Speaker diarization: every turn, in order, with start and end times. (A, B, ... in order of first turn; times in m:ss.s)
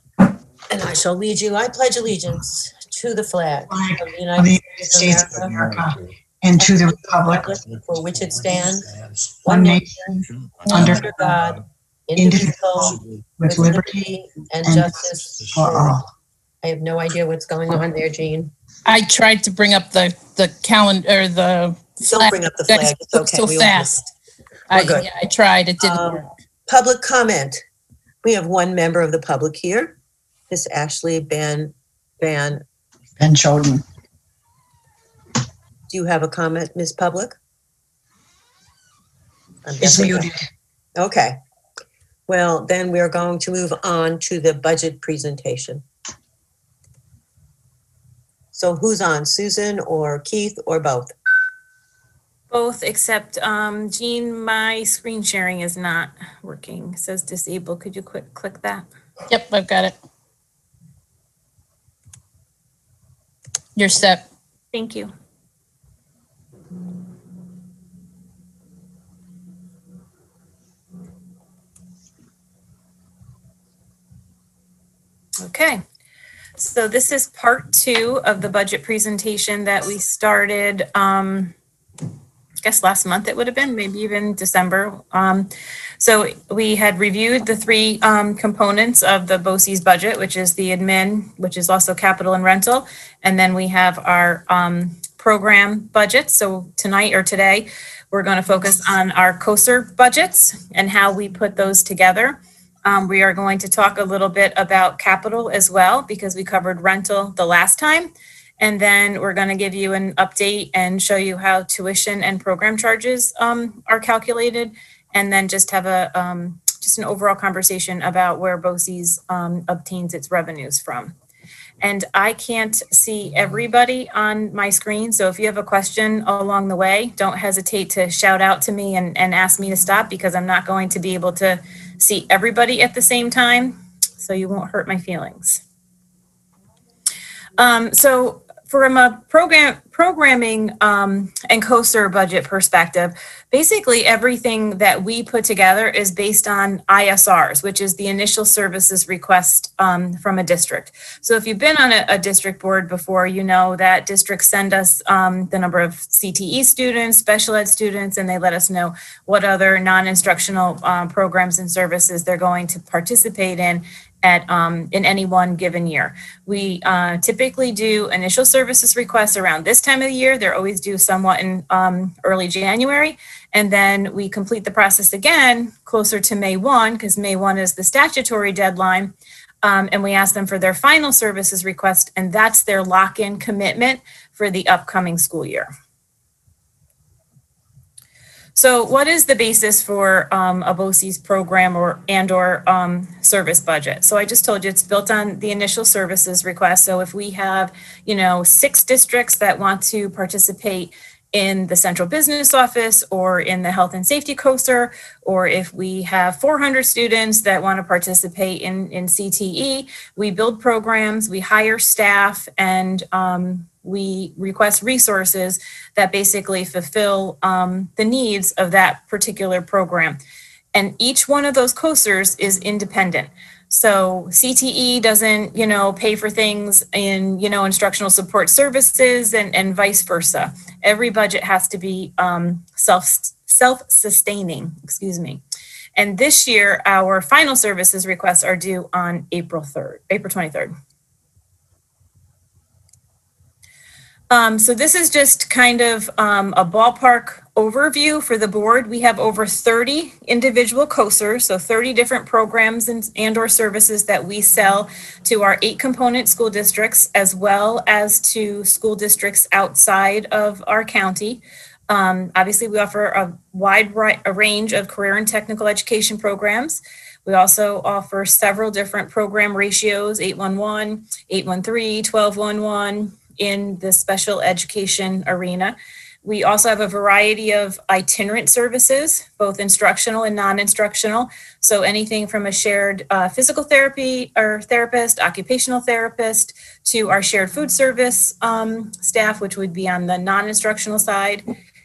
0:00.7-0:05.7 A
0:03.7-0:07.5 B
0:06.6-0:10.0 A
0:09.5-0:11.3 B
0:10.7-0:16.0 A
0:12.2-0:14.1 B
0:14.6-0:16.0 B
0:16.6-0:18.5 A
0:18.8-0:24.1 C
0:22.0-0:24.0 A
0:24.7-0:26.2 C
0:24.7-0:25.1 A
0:25.8-0:27.6 A
0:28.2-0:30.0 A
0:30.5-0:32.6 A
0:33.2-0:33.8 B
0:35.9-0:37.4 A
0:39.6-0:40.3 A
0:39.8-0:40.4 B
0:41.0-0:41.4 A
0:42.3-0:45.8 A
0:48.5-0:51.1 A
0:52.5-0:58.9 D
0:59.3-1:00.0 C
1:03.8-1:04.2 C
1:04.7-1:05.1 D
1:15.4-1:15.8 D
1:16.6-1:21.5 D
1:22.6-1:25.5 D
1:26.0-2:01.1 D
2:01.8-2:15.6 D
2:17.6-3:05.7 D
3:08.5-3:40.2 D
3:40.7-3:55.4 D
3:56.0-4:00.7 D
4:04.3-4:51.4 D